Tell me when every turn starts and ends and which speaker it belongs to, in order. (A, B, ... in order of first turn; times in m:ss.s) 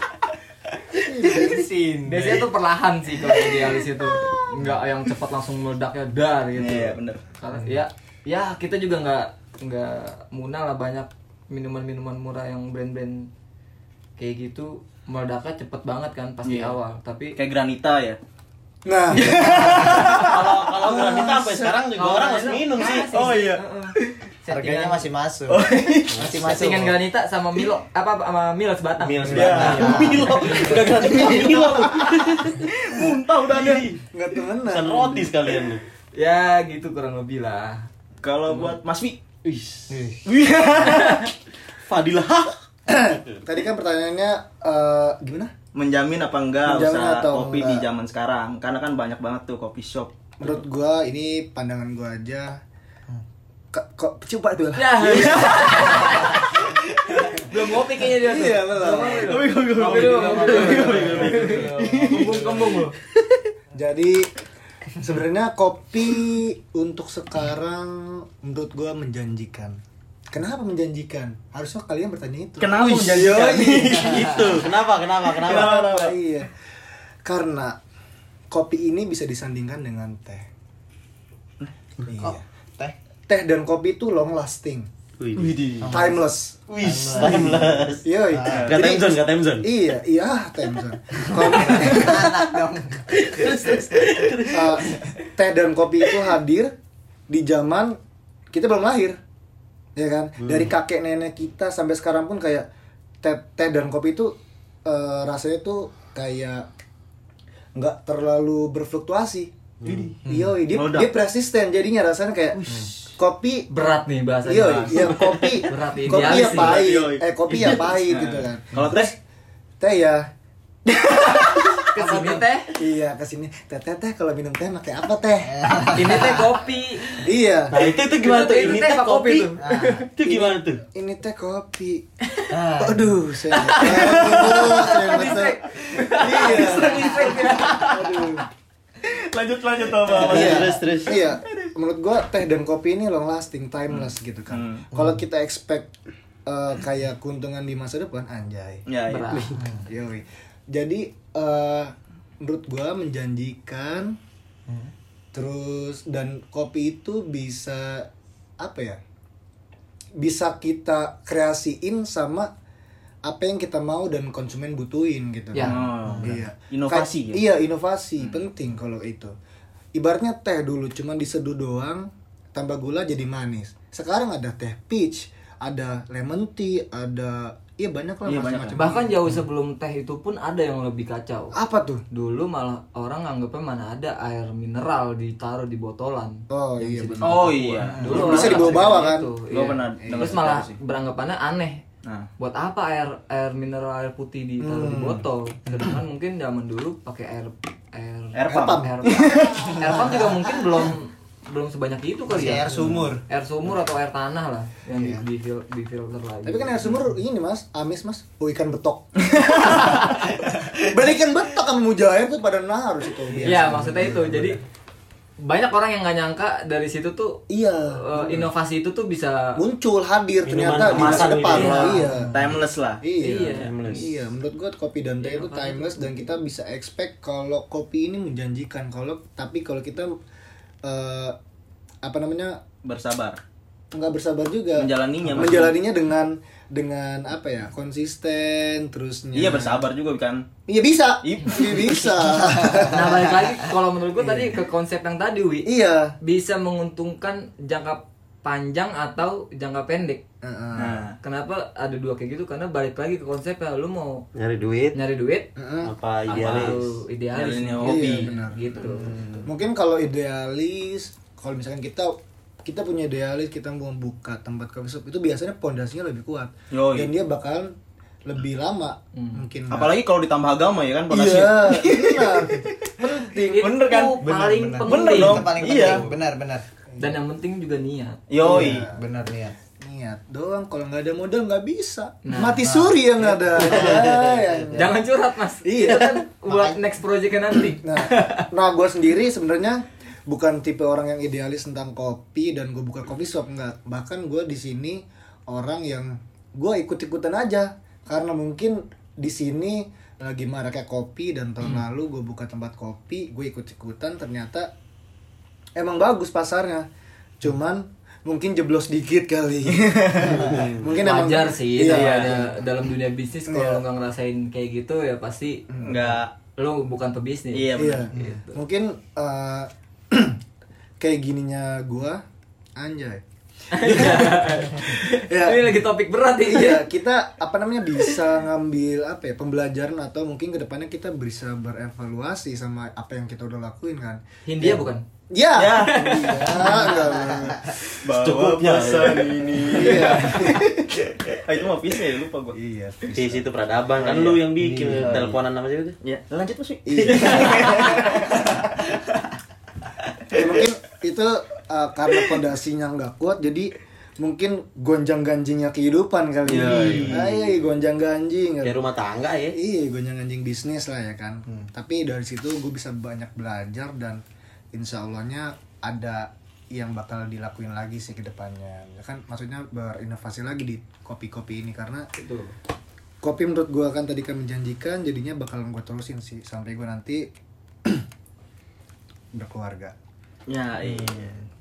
0:01.0-0:01.6 A
0:01.2-0:02.4 B
0:02.0-0:13.3 C
0:06.6-0:07.2 D
0:14.2-0:17.4 C
0:16.4-0:16.8 D
0:17.4-0:18.2 D
0:18.8-0:21.8 A
0:19.2-0:20.6 D
0:20.0-0:23.2 E
0:21.9-0:25.1 C
0:23.0-0:24.2 D
0:24.5-0:27.0 B
0:25.5-0:26.3 D
0:26.4-0:31.3 C
0:29.0-0:32.7 E
0:29.3-0:33.9 D
0:29.5-0:31.3 B
0:33.5-0:34.0 E
0:34.1-0:35.3 A
0:34.6-0:35.8 E
0:36.1-0:37.9 C
0:38.2-0:39.2 D
0:38.5-0:38.8 C
0:39.4-0:39.9 E
0:39.9-0:40.2 A
0:40.2-0:41.3 D
0:40.9-0:41.3 C
0:41.8-0:42.6 E
0:42.9-0:45.5 A
0:45.7-0:50.5 D
0:46.6-0:47.9 A
0:50.4-0:52.6 A
0:53.7-0:56.1 A
0:54.7-0:56.6 C
0:55.0-0:56.7 D
0:57.3-1:03.0 C
0:58.1-0:59.4 A
0:58.8-1:02.9 D
0:59.5-1:02.2 E
1:00.5-1:01.6 A
1:03.7-1:04.3 A
1:05.0-1:09.8 A
1:10.3-1:14.5 A
1:12.6-1:14.5 D
1:13.8-1:15.9 E
1:15.3-1:16.2 D
1:15.4-1:16.5 A
1:17.2-1:17.8 A
1:18.5-1:20.5 A
1:22.0-1:22.4 A
1:22.2-1:22.9 B
1:23.3-1:24.9 A
1:25.2-1:25.6 E
1:25.4-1:26.0 D
1:25.8-1:26.2 B
1:25.9-1:26.6 A
1:26.7-1:29.7 E
1:26.8-1:28.8 B
1:27.2-1:32.6 A
1:28.4-1:28.8 D
1:31.5-1:34.3 B
1:33.2-1:35.1 E
1:34.4-1:36.7 A
1:37.3-1:38.0 A
1:38.5-1:39.2 A
1:40.0-1:42.7 A
1:43.2-1:46.7 A
1:47.8-1:49.5 A
1:49.8-1:50.1 E
1:49.8-1:51.1 D
1:50.2-1:53.7 A
1:52.7-1:52.9 D
1:53.7-1:56.8 C
1:54.4-1:59.2 A
1:56.1-1:59.1 D
1:59.8-2:00.3 A
2:00.9-2:01.7 A
2:01.4-2:02.8 C
2:02.0-2:02.4 B
2:02.7-2:06.3 A
2:05.5-2:06.4 B
2:05.9-2:07.2 C
2:07.2-2:07.8 A
2:07.7-2:09.5 E
2:07.9-2:10.1 C
2:09.6-2:10.0 B
2:10.1-2:10.8 E
2:10.2-2:12.0 A
2:12.5-2:13.2 B
2:12.8-2:15.6 A
2:13.5-2:18.3 C
2:14.2-2:15.3 B
2:16.2-2:18.4 A
2:16.2-2:17.9 D
2:16.3-2:17.2 B
2:19.0-2:21.7 D
2:20.1-2:21.2 E
2:20.2-2:25.9 A
2:24.5-2:24.9 D
2:26.4-2:28.8 A
2:28.9-2:29.5 D
2:29.0-2:29.7 C
2:29.6-2:29.8 B
2:29.8-2:34.2 A
2:35.3-2:38.1 A
2:38.6-2:39.0 A
2:40.2-2:42.5 A
2:43.2-2:49.3 A
2:45.5-2:45.8 C
2:45.6-2:47.4 D
2:49.9-2:59.4 A
2:58.2-2:59.0 D
2:58.7-3:01.6 C
3:01.5-3:02.0 A
3:02.1-3:11.8 C
3:06.5-3:09.3 A
3:07.2-3:09.0 D
3:09.5-3:10.8 D
3:10.0-3:10.4 A
3:12.4-3:22.7 C
3:14.6-3:16.0 A
3:18.3-3:19.8 D
3:18.5-3:20.9 A
3:22.3-3:23.2 B
3:22.3-3:23.1 A
3:23.3-3:27.0 C
3:24.9-3:25.2 A
3:26.4-3:34.6 A
3:29.3-3:30.0 D
3:33.4-3:34.6 C
3:35.4-3:39.6 C
3:37.5-3:38.5 A
3:39.6-3:50.1 A
3:40.4-3:42.1 E
3:40.9-3:42.2 C
3:42.3-3:43.0 D
3:43.2-3:44.1 C
3:43.5-3:44.1 E
3:45.2-3:46.2 C
3:50.8-3:51.4 A
3:52.0-3:52.6 A
3:52.8-3:53.4 D
3:53.9-3:59.8 A
3:54.8-3:55.8 D
3:59.3-4:00.4 D
4:00.7-4:03.6 A
4:01.2-4:02.2 D
4:02.9-4:10.2 C
4:04.2-4:04.6 A
4:05.6-4:06.2 A
4:10.4-4:11.0 A
4:10.7-4:11.2 D
4:11.2-4:14.2 C
4:14.3-4:15.0 E
4:14.9-4:15.5 C
4:15.6-4:15.9 A
4:15.8-4:16.8 E
4:16.3-4:19.4 C
4:16.3-4:16.8 D
4:17.3-4:18.3 D
4:17.8-4:27.7 A
4:18.8-4:19.4 B
4:26.7-4:27.1 D
4:28.2-4:30.0 A
4:29.1-4:29.5 C
4:29.7-4:34.3 D
4:31.1-4:33.7 A
4:33.3-4:36.0 C
4:34.2-4:36.6 B
4:34.8-4:36.1 D
4:37.0-4:38.2 C
4:38.3-4:38.9 D
4:38.4-4:39.0 A
4:38.4-4:39.6 B
4:39.8-4:45.0 A
4:42.2-4:42.7 C
4:42.6-4:44.9 B
4:44.7-4:48.5 C
4:45.6-4:46.3 A
4:47.7-5:04.7 A
5:05.8-5:06.9 A
5:07.4-5:12.6 A
5:09.7-5:10.7 D
5:10.9-5:15.7 C
5:11.9-5:12.4 D
5:13.5-5:13.8 A
5:15.7-5:16.2 A
5:15.8-5:16.3 D
5:16.6-5:18.6 C
5:17.5-5:18.1 D
5:17.8-5:20.4 A
5:21.0-5:22.2 A
5:22.8-5:25.8 A
5:23.7-5:26.9 C
5:26.4-5:37.8 A
5:34.4-5:35.0 C
5:35.5-5:36.5 D
5:35.6-5:37.0 C
5:36.6-5:37.6 B
5:38.0-5:42.6 D
5:38.1-5:40.1 E
5:39.6-5:40.7 A
5:42.5-5:43.5 A
5:43.1-5:46.0 E
5:44.0-5:45.1 D
5:44.6-5:45.4 B
5:46.0-5:48.4 D
5:46.8-5:48.2 A
5:50.3-5:58.8 A
5:56.4-5:57.3 D
5:56.8-5:57.3 E
5:58.6-5:59.6 E
5:59.5-6:04.2 A
6:04.7-6:12.1 A
6:12.2-6:12.5 C
6:13.2-6:17.3 A
6:19.3-6:19.9 A
6:20.5-6:21.4 D
6:20.8-6:21.4 B